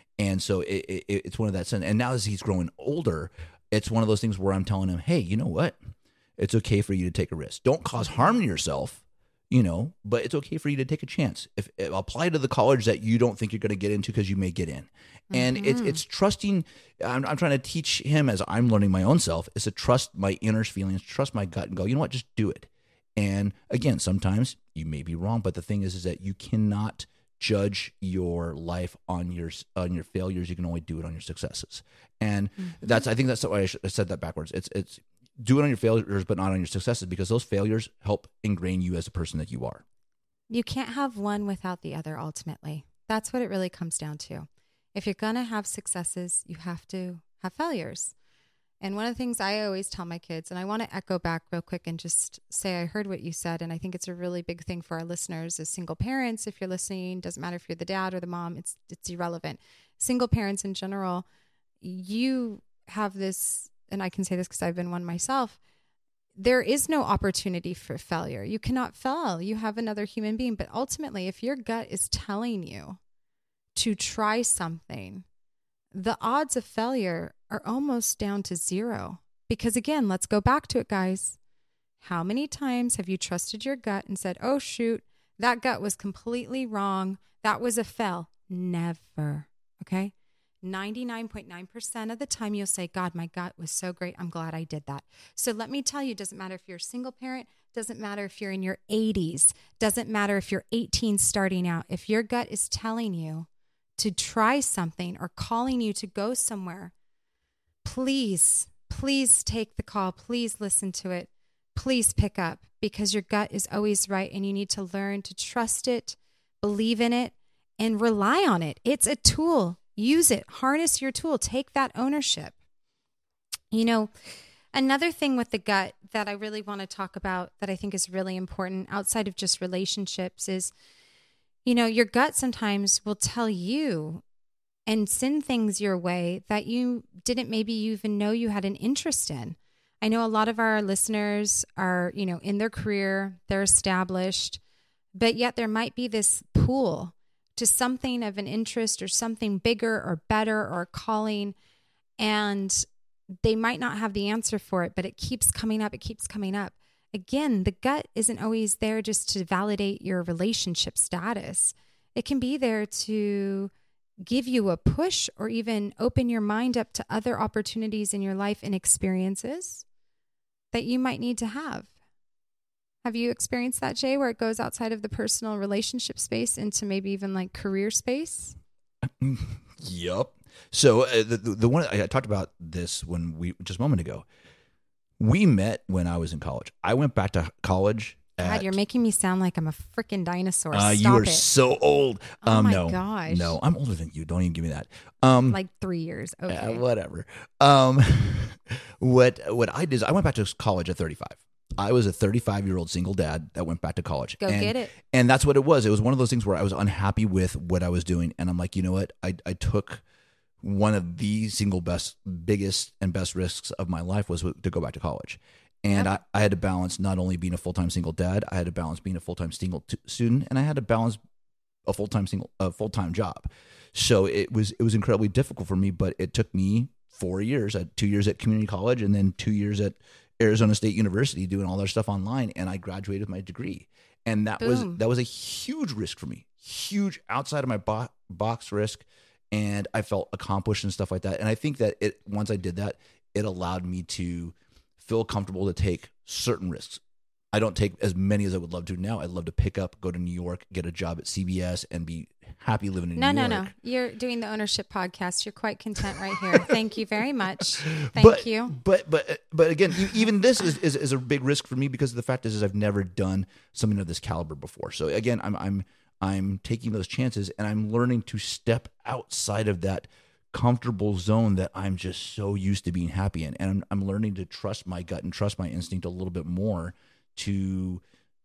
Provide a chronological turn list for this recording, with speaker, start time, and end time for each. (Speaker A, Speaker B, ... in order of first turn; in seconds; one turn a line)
Speaker A: 0.2-39.8
Speaker B: 15.3-16.0
Speaker B: 32.6-33.0
Speaker B: 40.5-48.1
Speaker B: 48.8-61.2
Speaker B: 61.8-65.6
Speaker B: 66.3-73.0
Speaker B: 73.7-75.2
Speaker B: 75.9-81.4
Speaker B: 82.0-106.9
Speaker B: 107.8-122.5
Speaker B: 123.7-130.7
Speaker B: 131.6-134.2
Speaker B: 134.8-144.6
Speaker B: 145.1-151.5
Speaker B: 152.2-152.8
Speaker B: 153.4-163.7
Speaker B: 164.2-169.8
Speaker B: 170.7-171.9
Speaker B: 173.0-178.5
Speaker A: 179.0-184.2
Speaker A: 185.2-188.7
Speaker B: 188.4-191.4
Speaker A: 190.7-195.6
Speaker B: 192.4-193.6
Speaker B: 195.5-196.8
Speaker A: 196.5-210.0
Speaker B: 204.4-204.9
Speaker A: 210.6-221.2
Speaker A: 221.9-247.0
Speaker B: 234.6-235.0
Speaker A: 247.5-253.7
Speaker B: 253.2-258.8
Speaker A: 257.9-278.0